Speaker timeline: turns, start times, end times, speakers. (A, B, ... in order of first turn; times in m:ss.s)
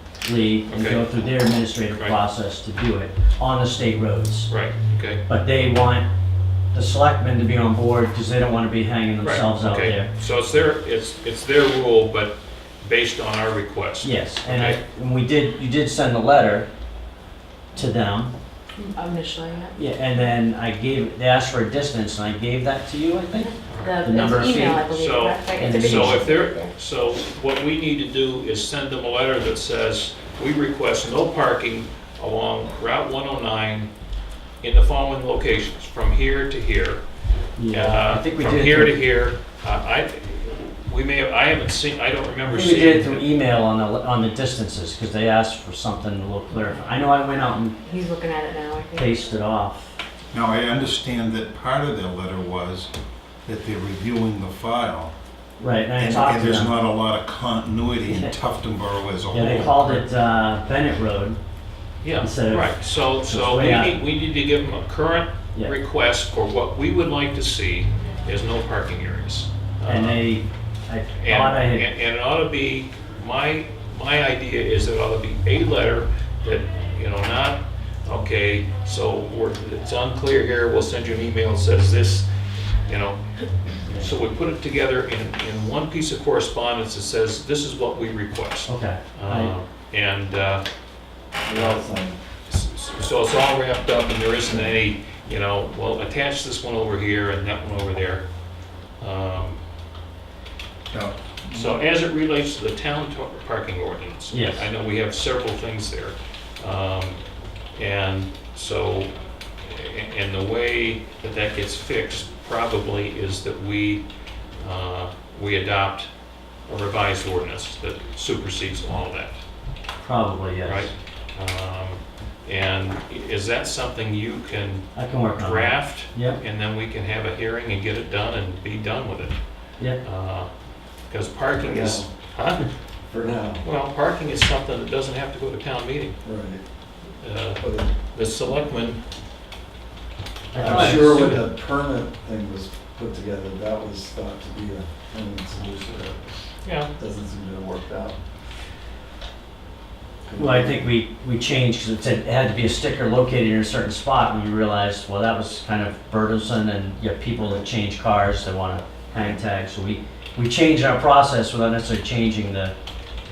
0:00.2-0:04.5 A
0:00.7-0:01.3 B
0:04.5-0:05.3 B
0:05.3-0:06.1 A
0:06.7-0:10.1 A
0:09.2-0:14.8 B
0:14.0-0:16.7 A
0:17.7-0:18.3 A
0:18.8-0:19.8 C
0:19.8-0:24.9 A
0:23.8-0:26.7 C
0:24.9-0:33.9 B
0:25.6-0:26.2 A
0:34.6-0:37.0 B
0:37.6-0:39.0 A
0:37.7-0:43.2 B
0:42.4-0:47.8 A
0:47.8-0:49.2 C
0:49.0-0:49.9 A
0:50.3-0:52.9 D
0:53.4-0:55.1 D
0:55.6-0:56.7 A
0:56.0-0:59.8 D
0:58.1-0:58.3 A
0:59.3-1:01.4 A
0:59.4-0:59.9 B
1:02.0-1:10.2 B
1:02.2-1:04.0 A
1:09.8-1:11.8 A
1:11.2-1:22.3 B
1:22.8-1:30.6 B
1:23.9-1:24.1 A
1:28.6-1:29.5 A
1:31.4-1:32.2 E
1:31.5-1:31.8 B
1:32.5-1:38.2 B
1:39.0-1:39.6 B
1:40.9-1:41.8 D
1:41.5-1:47.2 B
1:44.3-1:44.7 A
1:47.7-1:54.0 B
1:54.6-1:56.1 B
1:56.7-1:59.4 B
2:00.0-2:00.9 A
2:00.6-2:09.4 B
2:04.9-2:06.4 A
2:10.0-2:10.5 B
2:11.1-2:12.7 B
2:11.6-2:12.1 E
2:13.1-2:13.6 E
2:13.6-2:16.2 B
2:16.2-2:16.6 E
2:17.2-2:19.0 B
2:17.6-2:17.9 E
2:20.5-2:21.4 A
2:20.6-2:26.4 E
2:20.6-2:21.4 B
2:26.6-2:26.9 B
2:27.0-2:28.2 E
2:30.3-2:30.9 E
2:30.4-2:42.7 A